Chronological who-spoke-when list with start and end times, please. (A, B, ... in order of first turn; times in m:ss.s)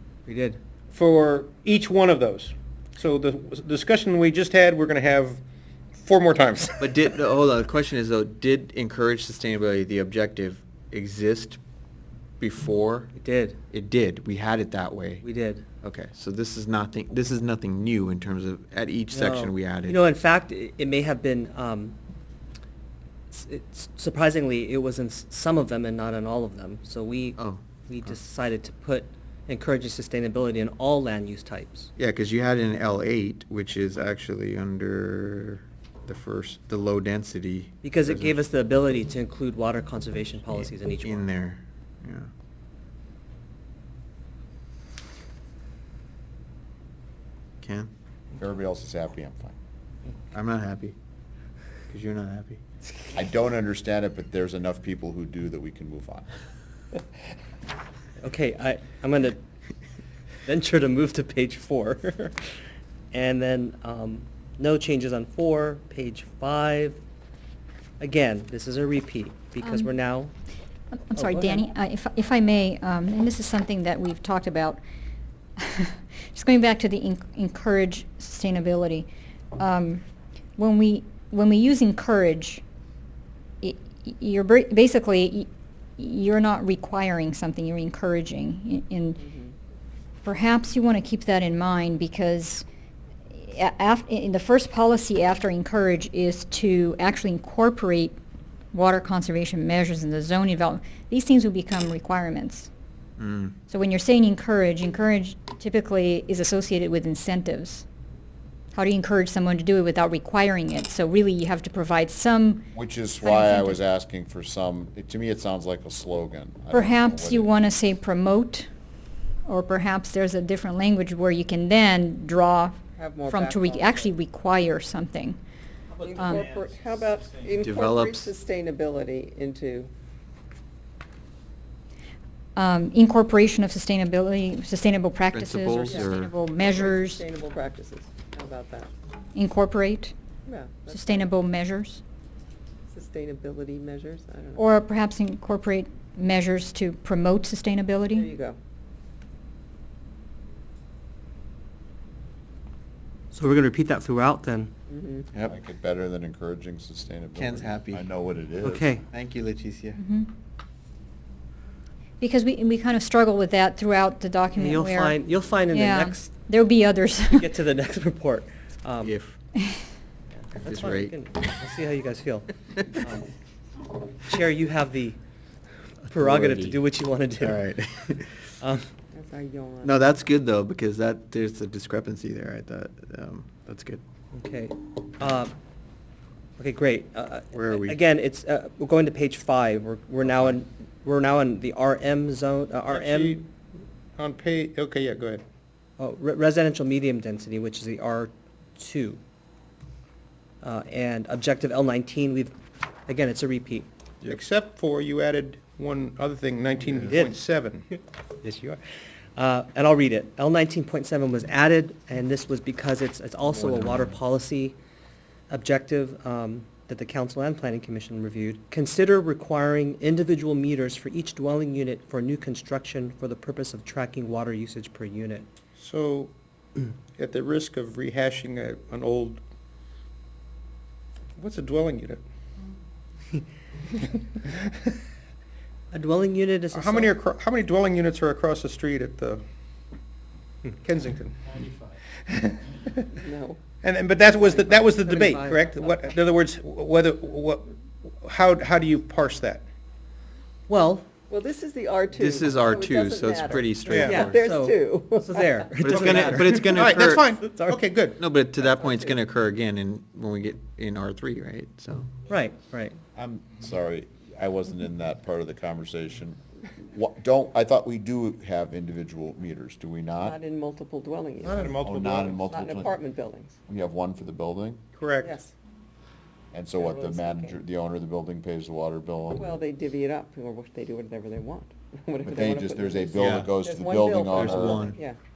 0:00.3-0:00.6 A
0:00.9-0:05.4 B
0:05.9-0:07.0 B
0:06.8-0:11.6 C
0:12.4-0:13.1 C
0:13.1-0:13.6 A
0:13.7-0:15.2 C
0:15.2-0:15.6 A
0:15.8-0:20.0 C
0:19.1-0:22.0 A
0:23.3-0:31.9 A
0:27.4-0:27.6 C
0:32.0-0:38.3 C
0:37.8-0:41.3 A
0:40.5-0:42.3 C
0:47.6-0:47.9 C
0:48.4-0:49.5 D
0:50.3-0:50.9 C
0:51.9-0:52.6 C
0:53.1-0:56.2 D
0:58.2-0:59.4 A
1:00.4-1:02.4 A
1:03.1-1:07.0 A
1:08.0-1:10.3 A
1:09.6-1:09.9 E
1:10.9-1:14.8 E
1:11.2-1:11.7 A
1:15.6-1:20.0 E
1:20.6-1:22.6 E
1:23.6-1:29.2 E
1:29.2-1:29.5 F
1:30.2-1:32.6 E
1:33.3-1:38.2 E
1:38.7-1:42.7 E
1:43.2-1:43.5 C
1:43.7-1:47.8 E
1:48.7-1:52.7 E
1:52.7-1:57.5 D
1:53.2-1:53.8 E
1:56.7-1:58.7 E
1:59.4-2:05.4 E
2:03.0-2:04.1 F
2:06.0-2:09.9 F
2:06.1-2:06.5 E
2:07.6-2:08.3 C
2:12.6-2:17.2 E
2:15.3-2:16.3 C
2:15.8-2:18.9 F
2:19.3-2:20.1 E
2:20.4-2:21.3 F
2:20.9-2:22.0 E
2:22.9-2:24.7 F
2:24.6-2:28.3 E
2:28.1-2:28.6 F
2:33.3-2:34.7 A
2:34.9-2:35.3 F
2:35.4-2:38.9 D
2:37.4-2:38.1 C
2:38.6-2:39.0 A
2:39.1-2:40.0 C
2:40.0-2:40.3 E
2:42.2-2:45.2 E
2:44.5-2:46.3 A
2:45.7-2:47.5 E
2:47.3-2:49.2 A
2:49.0-2:49.4 C
2:49.6-2:49.8 E
2:50.3-2:53.3 A
2:50.5-2:51.1 C
2:54.2-2:55.2 A
2:56.1-2:57.7 A
2:56.1-2:56.8 C
2:57.4-2:58.4 C
2:58.6-2:58.9 A
2:59.1-3:00.0 F
2:59.8-3:04.0 C
3:04.3-3:05.5 A
3:06.6-3:13.4 A
3:07.5-3:08.0 C
3:12.9-3:13.4 B
3:14.2-3:15.4 B
3:16.0-3:19.2 A
3:20.6-3:23.9 A
3:24.2-3:27.8 B
3:27.0-3:27.4 A
3:28.4-3:28.8 A
3:29.4-3:34.8 A
3:35.5-3:45.5 A
3:45.8-3:46.3 B
3:47.2-3:49.4 B
3:51.4-3:52.2 B
3:55.9-3:57.1 A
3:56.7-3:59.4 B
4:00.8-4:01.5 B
4:02.3-4:03.0 B
4:03.1-4:03.7 F
4:03.8-4:07.7 B
4:04.3-4:06.0 A
4:08.2-4:09.6 B
4:10.7-4:11.1 A
4:11.3-4:16.4 F
4:12.1-4:14.4 C
4:13.9-4:14.3 B
4:14.2-4:17.8 A
4:15.8-4:22.1 C
4:16.7-4:18.2 B
4:18.6-4:19.2 F
4:22.3-4:23.0 A
4:23.2-4:30.4 D
4:30.2-4:31.8 F
4:31.4-4:32.6 B
4:31.8-4:32.9 D
4:32.5-4:33.6 F
4:33.7-4:34.8 D
4:35.0-4:35.4 B
4:35.2-4:35.5 F
4:36.5-4:39.5 D
4:36.8-4:37.6 F
4:39.4-4:45.2 F
4:42.2-4:45.0 D
4:43.2-4:43.5 C
4:44.3-4:45.0 C